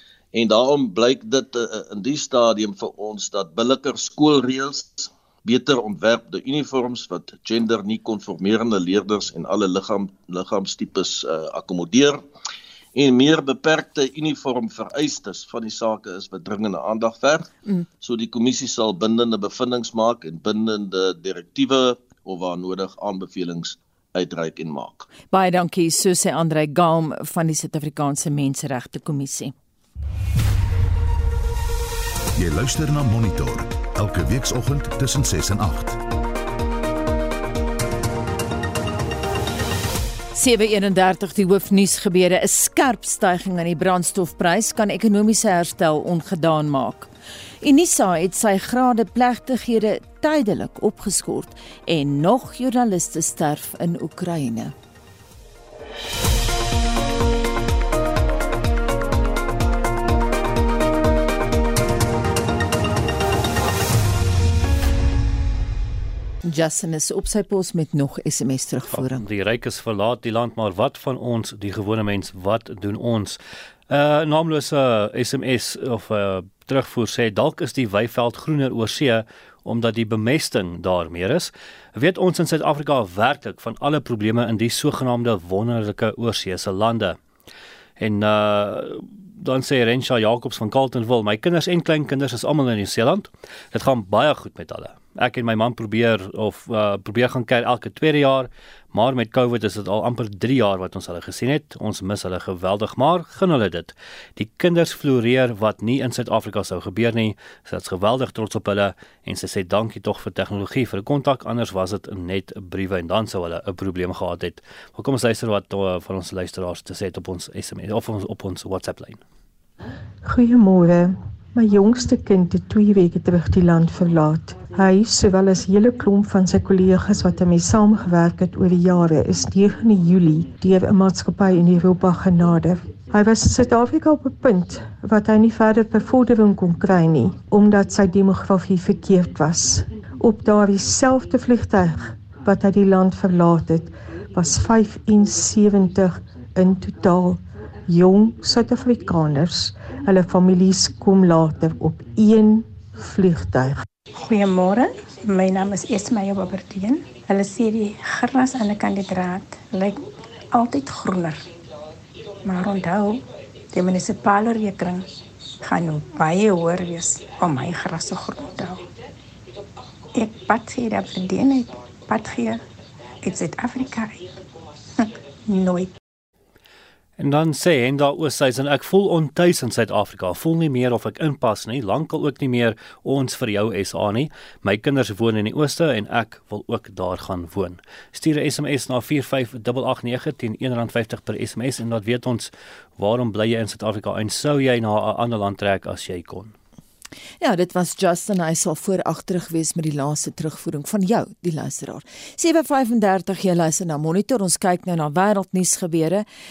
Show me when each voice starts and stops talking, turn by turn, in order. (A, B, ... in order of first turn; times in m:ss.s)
0:00.3-0:12.2 A
0:12.9-0:17.5 A
0:18.0-0:25.1 A
0:25.3-0:29.5 B
0:32.4-0:36.0 C
0:40.3-0:47.1 B
0:47.6-0:54.7 B
1:06.4-1:09.2 B
1:08.9-1:13.4 D
1:13.9-1:27.2 D
1:28.0-1:59.2 D
2:00.2-2:33.8 E
2:34.1-2:41.4 F
2:42.4-2:45.0 F
2:45.6-2:48.8 F
2:50.1-2:52.6 F
2:53.2-2:54.3 F
2:55.0-2:55.9 F
2:57.2-3:16.5 D
3:17.4-3:26.2 B